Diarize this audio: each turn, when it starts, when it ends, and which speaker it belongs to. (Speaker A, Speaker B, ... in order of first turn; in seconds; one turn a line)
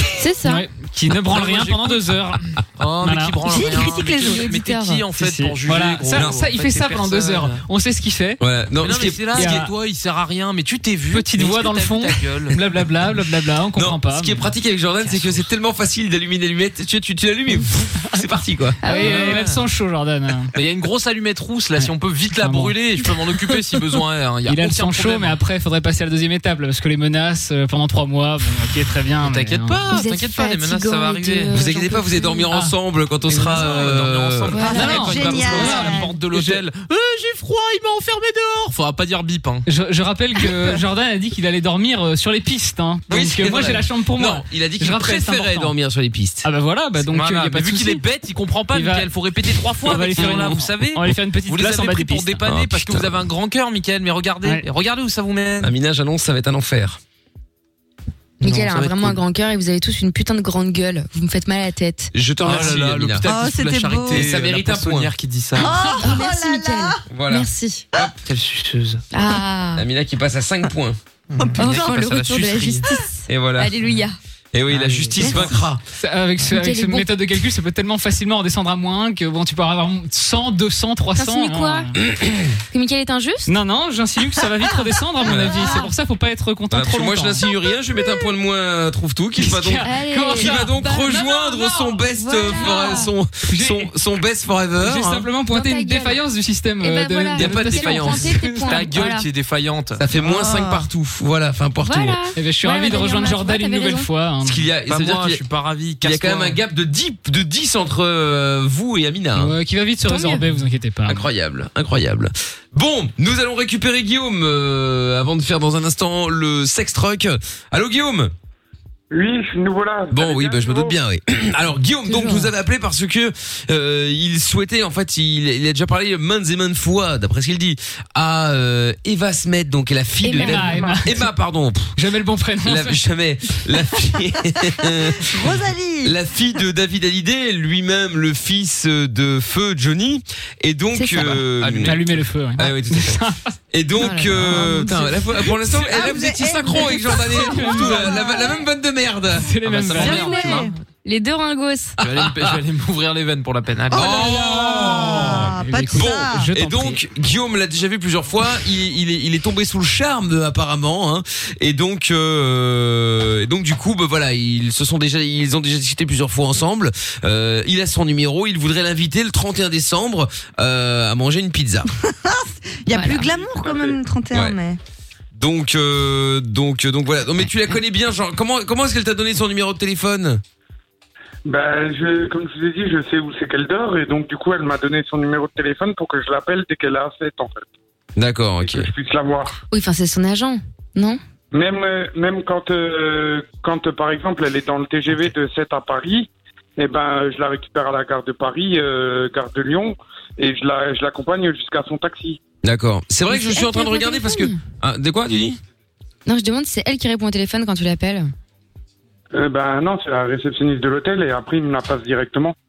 Speaker A: 0.2-0.6
Speaker B: 0.4-3.4
Speaker C: 1.3-2.2
Speaker C: 2.8-7.6
Speaker A: 3.5-5.0
Speaker B: 5.2-8.4
Speaker D: 8.4-9.7
Speaker C: 8.8-12.6
Speaker B: 9.4-9.7
Speaker B: 11.1-14.5
Speaker D: 13.8-18.8
Speaker B: 15.1-15.4
Speaker A: 18.8-19.3
Speaker B: 18.9-20.5
Speaker C: 18.9-19.6
Speaker C: 20.6-25.4
Speaker B: 21.8-23.1
Speaker B: 24.4-29.8
Speaker C: 29.2-31.6
Speaker A: 29.9-32.5
Speaker D: 31.5-34.6
Speaker C: 33.3-39.7
Speaker A: 34.5-35.1
Speaker E: 34.6-36.2
Speaker B: 34.6-36.6
Speaker B: 39.7-45.7
Speaker D: 43.1-46.5
Speaker B: 46.4-48.0
Speaker C: 47.0-55.7
Speaker B: 48.7-49.1
Speaker B: 49.9-52.4
Speaker D: 50.1-50.6
Speaker D: 52.4-53.2
Speaker D: 55.6-57.0
Speaker A: 58.4-62.1
Speaker C: 58.4-59.2
Speaker D: 62.1-63.3
Speaker C: 62.4-65.8
Speaker E: 63.2-64.3
Speaker D: 64.1-65.1
Speaker E: 65.5-67.0
Speaker A: 65.7-67.9
Speaker D: 67.1-68.1
Speaker C: 68.2-69.0
Speaker A: 69.1-69.9
Speaker D: 69.8-71.0
Speaker C: 71.3-72.8
Speaker E: 71.4-71.9
Speaker A: 71.6-74.2
Speaker D: 73.3-73.7
Speaker D: 74.5-75.8
Speaker C: 74.7-75.4
Speaker B: 76.0-81.9
Speaker A: 76.5-77.1
Speaker A: 81.2-81.9
Speaker D: 82.0-82.6
Speaker A: 82.7-83.5
Speaker B: 83.5-87.5
Speaker A: 85.2-85.9
Speaker D: 85.2-85.6
Speaker D: 86.7-95.3
Speaker B: 89.4-93.9
Speaker A: 89.8-91.6
Speaker A: 92.2-93.1
Speaker B: 94.8-99.0
Speaker A: 95.5-96.2
Speaker A: 96.8-99.3
Speaker D: 97.4-98.3
Speaker C: 97.7-100.0
Speaker D: 100.0-102.2
Speaker E: 100.2-100.9
Speaker A: 101.8-104.1
Speaker B: 102.4-104.7
Speaker D: 104.4-105.4
Speaker C: 104.9-106.6
Speaker D: 106.0-109.6
Speaker B: 109.4-111.2
Speaker A: 110.0-110.5
Speaker D: 111.1-118.3
Speaker F: 119.1-121.0
Speaker D: 120.1-131.9
Speaker A: 122.0-122.5
Speaker A: 130.2-130.7
Speaker B: 130.4-131.2
Speaker B: 131.9-132.9
Speaker D: 132.6-142.0
Speaker E: 135.1-136.2
Speaker A: 140.9-141.4
Speaker C: 141.2-142.2
Speaker B: 141.8-143.4
Speaker D: 142.6-149.5
Speaker A: 144.0-144.7
Speaker E: 144.4-145.3
Speaker B: 145.7-146.1
Speaker E: 145.9-148.6
Speaker B: 146.8-148.3
Speaker B: 149.4-150.7
Speaker C: 149.6-150.7
Speaker A: 149.9-151.9
Speaker E: 150.4-150.7
Speaker C: 152.0-154.2
Speaker D: 152.1-152.6
Speaker E: 153.9-156.5
Speaker D: 153.9-171.9
Speaker B: 154.3-157.0
Speaker E: 172.0-174.8
Speaker A: 172.9-173.3
Speaker F: 173.3-174.0
Speaker D: 174.3-174.6
Speaker D: 175.3-180.4
Speaker F: 181.4-187.7
Speaker D: 188.2-188.9
Speaker F: 188.6-189.6
Speaker A: 189.7-191.2
Speaker F: 191.5-202.4
Speaker D: 202.6-205.6
Speaker A: 203.3-204.6
Speaker A: 206.3-208.3
Speaker F: 209.3-212.6